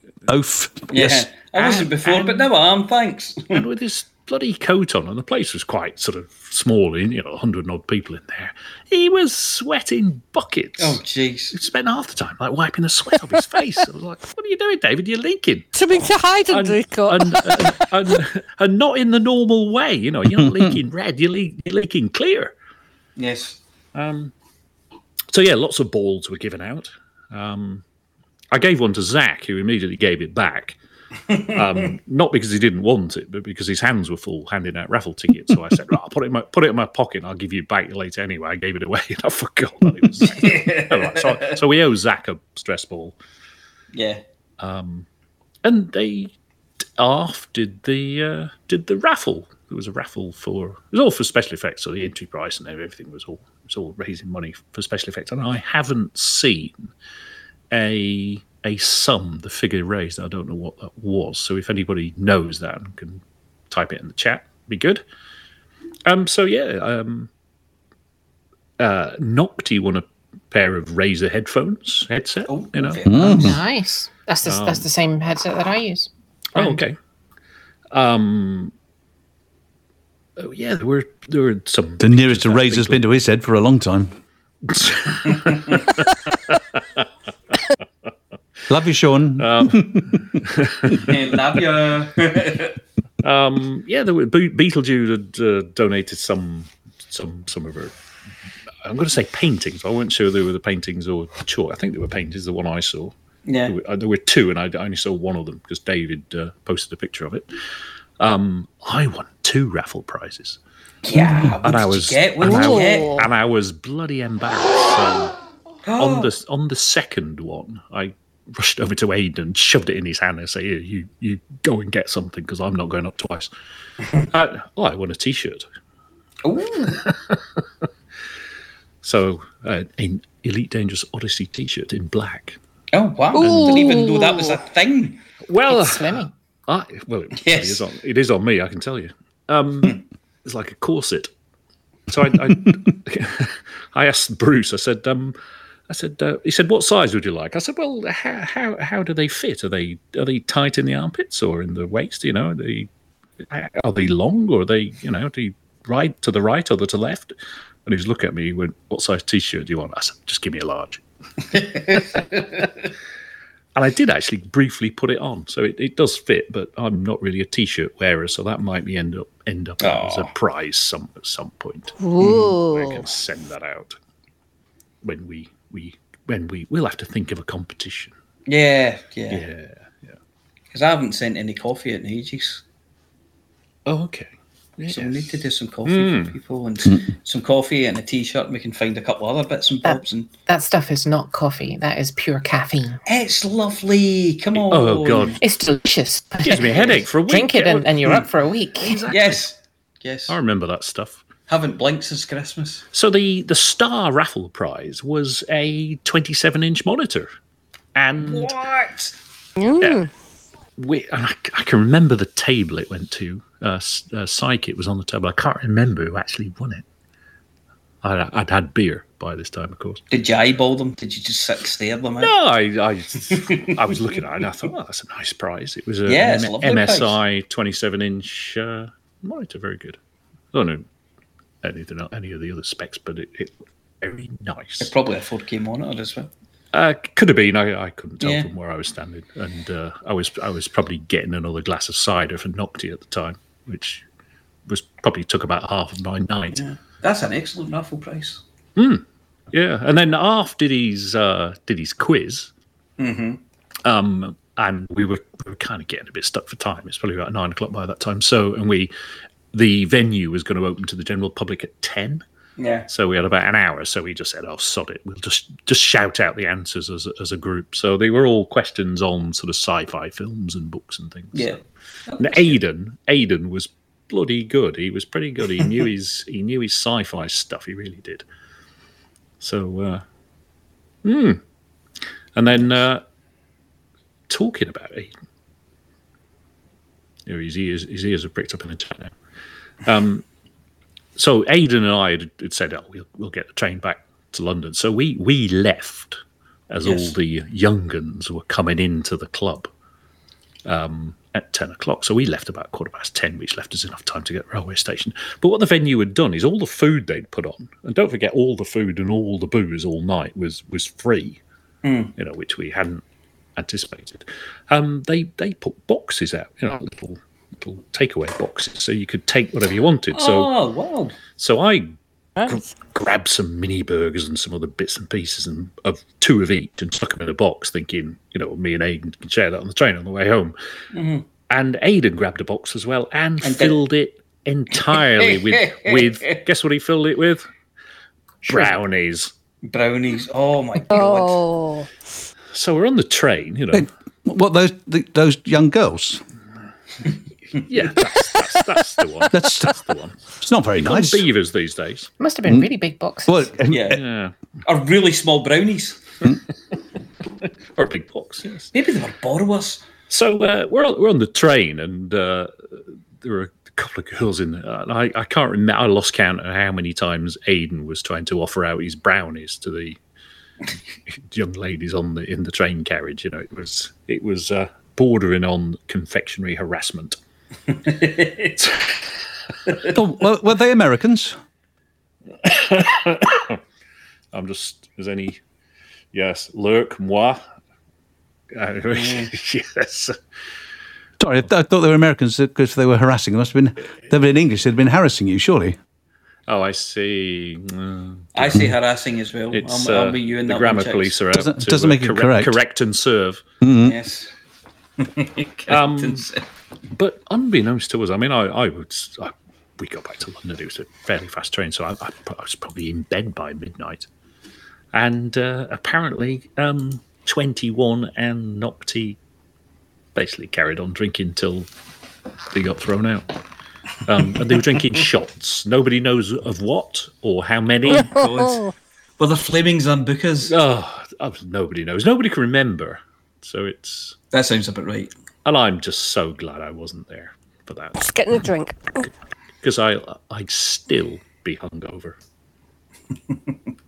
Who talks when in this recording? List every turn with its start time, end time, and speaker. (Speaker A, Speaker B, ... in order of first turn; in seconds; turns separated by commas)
Speaker A: 0.3-1.3, Speaker B: 0.9-3.6, Speaker C: 1.6-2.4, Speaker C: 3.5-11.0, Speaker B: 10.8-11.5, Speaker C: 11.5-15.7, Speaker D: 15.7-17.7, Speaker C: 16.5-22.5, Speaker A: 20.4-20.7, Speaker B: 23.2-23.6, Speaker C: 23.9-24.3, Speaker C: 25.3-27.8, Speaker C: 28.5-30.8, Speaker B: 31.3-31.6, Speaker C: 31.5-43.1, Speaker B: 40.2-41.5, Speaker B: 43.9-44.2, Speaker C: 44.6-45.0, Speaker C: 45.6-46.3, Speaker C: 47.0-56.9, Speaker C: 57.7-65.0, Speaker C: 66.0-67.3, Speaker C: 68.8-73.0, Speaker B: 72.5-73.5, Speaker A: 73.0-73.6, Speaker E: 73.2-76.8, Speaker C: 74.5-74.8, Speaker C: 76.5-77.0, Speaker C: 77.9-78.7, Speaker C: 80.4-83.0, Speaker A: 82.0-84.2, Speaker C: 84.6-86.6, Speaker B: 85.3-85.8, Speaker A: 88.7-90.2, Speaker C: 89.4-91.2, Speaker B: 91.0-92.8, Speaker C: 93.2-97.9, Speaker C: 98.8-103.1, Speaker B: 103.5-103.7, Speaker C: 103.7-107.5, Speaker C: 108.2-110.6, Speaker B: 111.0-113.2, Speaker C: 111.6-115.3, Speaker D: 112.5-113.2, Speaker B: 115.8-116.3, Speaker C: 116.0-123.5, Speaker C: 124.3-125.6, Speaker B: 126.4-127.0, Speaker C: 126.9-127.4, Speaker C: 129.0-132.6, Speaker B: 132.9-135.2, Speaker C: 133.4-133.9, Speaker D: 133.4-134.1, Speaker C: 135.5-141.3, Speaker E: 135.7-136.3, Speaker B: 137.3-137.8, Speaker C: 142.1-145.3, Speaker C: 145.9-152.9, Speaker C: 153.5-157.3, Speaker C: 157.8-161.0, Speaker B: 161.5-162.7, Speaker C: 163.7-172.0, Speaker B: 169.8-170.3, Speaker D: 172.0-173.0, Speaker B: 172.2-172.5, Speaker C: 172.7-173.9, Speaker C: 175.0-178.1, Speaker B: 178.5-179.4, Speaker C: 179.3-180.2, Speaker B: 180.7-182.6, Speaker C: 183.8-185.3, Speaker B: 184.9-190.3, Speaker C: 185.8-186.3, Speaker E: 189.8-193.0, Speaker B: 193.1-195.4, Speaker C: 194.6-195.4, Speaker E: 195.4-199.0, Speaker C: 196.4-197.9, Speaker B: 196.6-197.0, Speaker C: 198.8-199.5, Speaker B: 199.1-200.3, Speaker C: 200.3-201.2, Speaker B: 201.5-202.8, Speaker C: 202.9-207.3, Speaker C: 207.9-208.5, Speaker B: 208.2-209.1, Speaker D: 209.6-210.1, Speaker C: 210.8-216.8, Speaker C: 218.0-220.0, Speaker B: 220.1-222.3, Speaker C: 222.2-230.0, Speaker B: 223.3-223.9, Speaker B: 226.1-227.2, Speaker C: 230.5-230.8, Speaker C: 231.6-234.9, Speaker B: 234.8-236.3, Speaker C: 236.7-244.0, Speaker B: 238.2-238.5, Speaker C: 244.7-246.6, Speaker B: 246.6-248.4, Speaker C: 248.8-252.5, Speaker B: 253.0-253.4, Speaker C: 253.8-258.9, Speaker C: 259.5-262.2, Speaker B: 262.6-262.9, Speaker C: 262.9-271.6, Speaker B: 271.3-272.6, Speaker C: 272.2-278.2, Speaker C: 279.4-280.0, Speaker C: 281.0-281.4, Speaker C: 282.3-283.0, Speaker C: 284.3-285.1, Speaker C: 287.3-289.1, Speaker C: 289.8-290.2, Speaker C: 291.2-299.7, Speaker B: 296.8-297.1, Speaker C: 300.6-311.4, Speaker B: 311.8-312.1, Speaker C: 312.2-313.0, Speaker C: 313.6-320.5, Speaker B: 320.1-321.2, Speaker C: 321.4-330.5, Speaker B: 330.9-331.2, Speaker C: 331.5-337.5, Speaker B: 333.4-333.8, Speaker B: 335.0-336.4, Speaker B: 338.5-338.7, Speaker C: 338.5-339.3, Speaker B: 339.6-341.4, Speaker D: 340.9-341.9, Speaker C: 342.5-343.9, Speaker A: 343.7-346.2, Speaker C: 347.6-350.2, Speaker A: 349.3-349.8, Speaker A: 350.4-351.2, Speaker C: 350.8-352.1, Speaker E: 352.2-353.6, Speaker A: 353.2-354.0, Speaker B: 353.7-354.0, Speaker C: 353.9-354.3, Speaker B: 354.6-356.0, Speaker C: 357.8-358.7, Speaker B: 358.7-359.8, Speaker C: 360.1-370.0, Speaker C: 371.1-377.2, Speaker B: 377.7-378.5, Speaker C: 378.6-379.0, Speaker A: 379.9-381.4, Speaker C: 382.4-383.6, Speaker C: 384.3-385.4, Speaker C: 386.1-387.4, Speaker C: 388.5-390.1, Speaker B: 388.9-389.3, Speaker A: 391.2-395.8, Speaker C: 396.5-398.7, Speaker B: 398.3-401.2, Speaker C: 399.5-403.4, Speaker A: 401.3-402.6, Speaker A: 403.6-404.0, Speaker B: 403.8-404.3, Speaker B: 405.0-406.4, Speaker C: 405.7-406.2, Speaker C: 406.9-414.1, Speaker C: 414.9-419.2, Speaker C: 420.1-421.7, Speaker C: 422.5-423.2, Speaker C: 424.1-428.2, Speaker B: 427.9-428.6, Speaker D: 428.4-428.7, Speaker B: 429.2-430.5, Speaker C: 430.5-434.2, Speaker B: 434.3-435.1, Speaker C: 435.4-438.4, Speaker D: 438.0-439.0, Speaker C: 439.6-442.1